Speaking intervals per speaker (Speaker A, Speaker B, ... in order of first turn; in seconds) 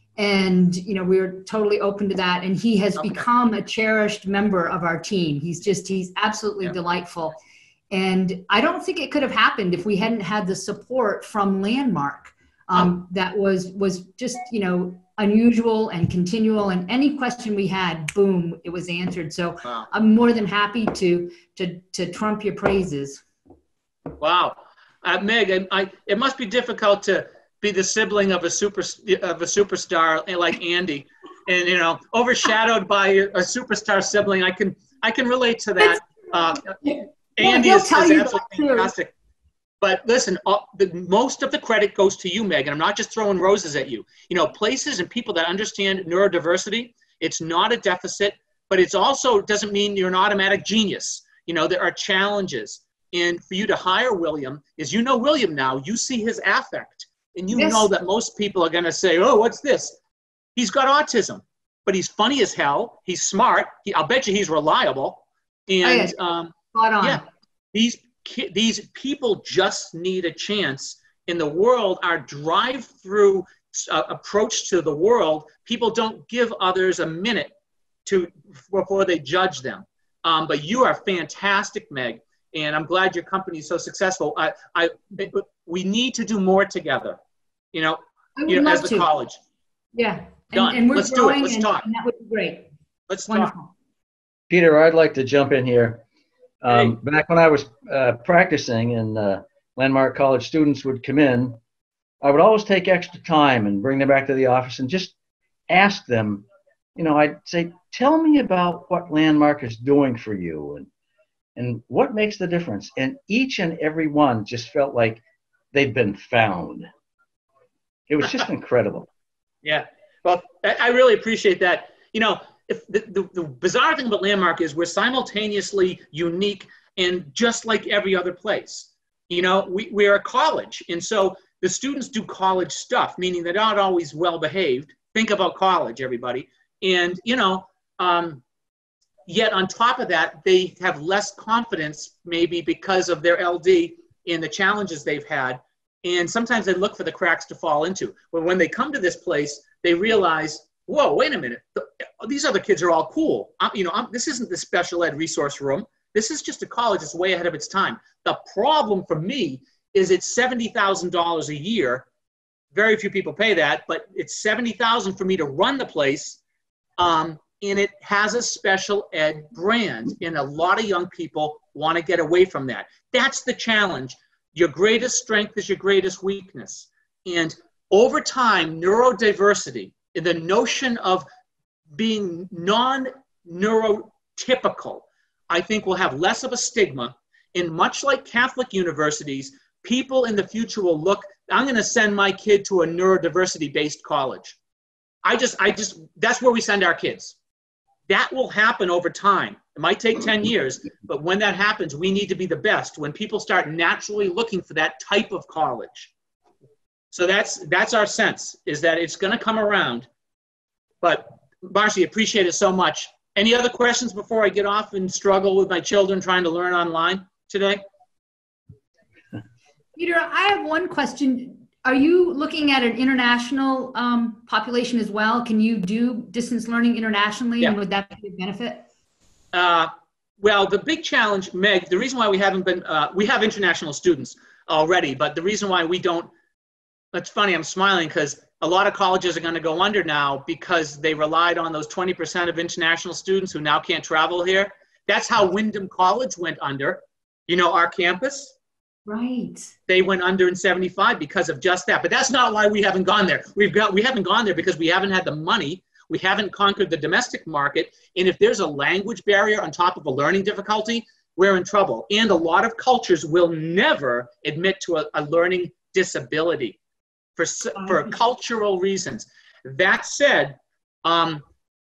Speaker A: 0.2-7.4, 7.9-23.2, 36.8-38.9, 57.5-57.9, 65.8-66.2, 66.7-67.2, 88.4-89.1, 89.9-92.7, 93.3-93.7, 219.9-228.8, 249.1-249.7
Speaker B: 24.2-39.1, 39.8-60.0, 60.5-67.2, 67.7-77.5, 78.0-87.2, 87.7-89.4, 90.5-91.8, 93.1-93.5, 119.6-138.4, 139.3-162.0, 162.7-166.4, 167.0-181.2, 181.9-194.6, 195.2-197.3, 198.1-206.1, 207.1-210.1, 211.0-217.8, 229.5-236.3, 237.1-248.5, 249.9-266.8, 267.4-271.4
Speaker C: 94.5-96.0, 96.6-101.6, 102.2-105.1, 105.7-110.9, 111.5-116.9, 118.1-119.1